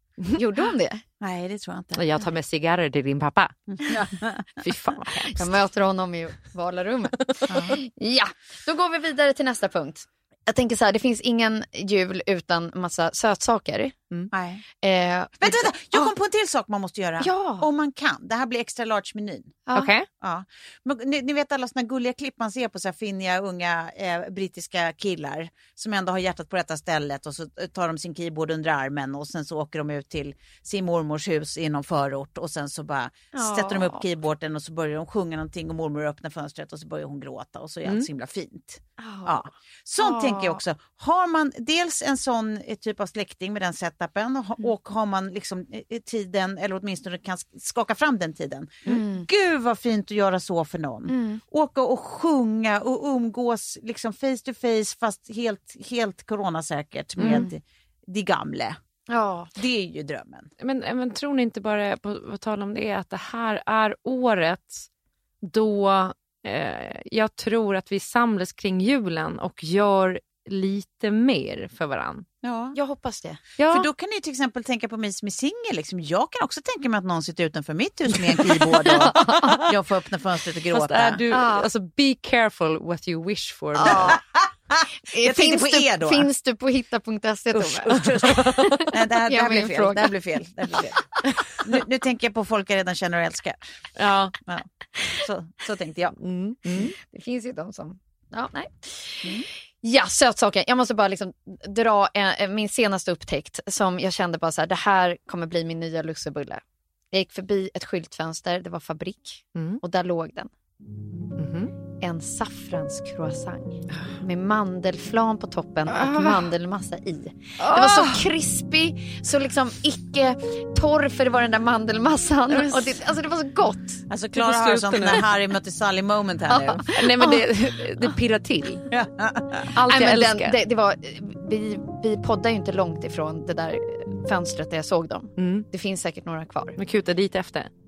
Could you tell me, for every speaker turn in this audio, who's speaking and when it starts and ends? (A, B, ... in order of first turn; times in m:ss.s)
0:00.4-0:01.0 A
0:01.2-0:02.0 B
0:02.0-0:03.6 C
0:03.7-0:04.6 B
0:04.6-0:05.5 C
0:05.3-0:14.0 A
0:07.5-0:07.8 B
0:14.3-0:14.6 B
0:14.8-0:16.1 A
0:15.4-0:19.6 B
0:17.2-0:17.7 A
0:19.7-0:19.9 A
0:19.7-0:20.1 C
0:20.2-0:58.8 B
0:33.3-0:34.0 A
0:39.0-0:39.5 A
0:40.0-0:40.6 A
0:48.8-0:49.2 A
0:51.1-0:51.4 A
0:57.2-0:57.4 C
0:59.1-0:59.5 A
0:59.6-1:00.5 B
1:00.6-1:04.9 C
1:05.4-1:12.2 C
1:12.4-1:12.8 B
1:12.7-1:13.4 A
1:13.6-1:13.9 C
1:13.7-1:21.2 B
1:18.1-1:19.6 C
1:19.0-1:19.5 A
1:20.7-1:24.1 C
1:21.3-1:21.7 A
1:23.8-1:24.2 A
1:23.8-1:26.3 B
1:25.1-1:30.1 A
1:27.7-1:33.6 B
1:28.0-1:28.6 C
1:34.0-1:34.3 C
1:34.4-1:36.2 B
1:36.2-1:36.9 C
1:36.8-1:46.6 A
1:47.1-1:50.5 A
1:49.5-1:49.8 C
1:51.4-1:51.7 C
1:52.0-2:04.0 A
1:55.9-1:56.4 C
1:57.6-1:58.2 C
2:02.5-2:02.9 C
2:04.1-2:06.8 B
2:04.3-2:05.3 C
2:06.5-2:07.4 A
2:06.9-2:08.8 C
2:08.9-2:09.7 B
2:09.7-2:10.6 C
2:09.9-2:16.8 A
2:15.4-2:15.7 C
2:16.8-2:17.7 C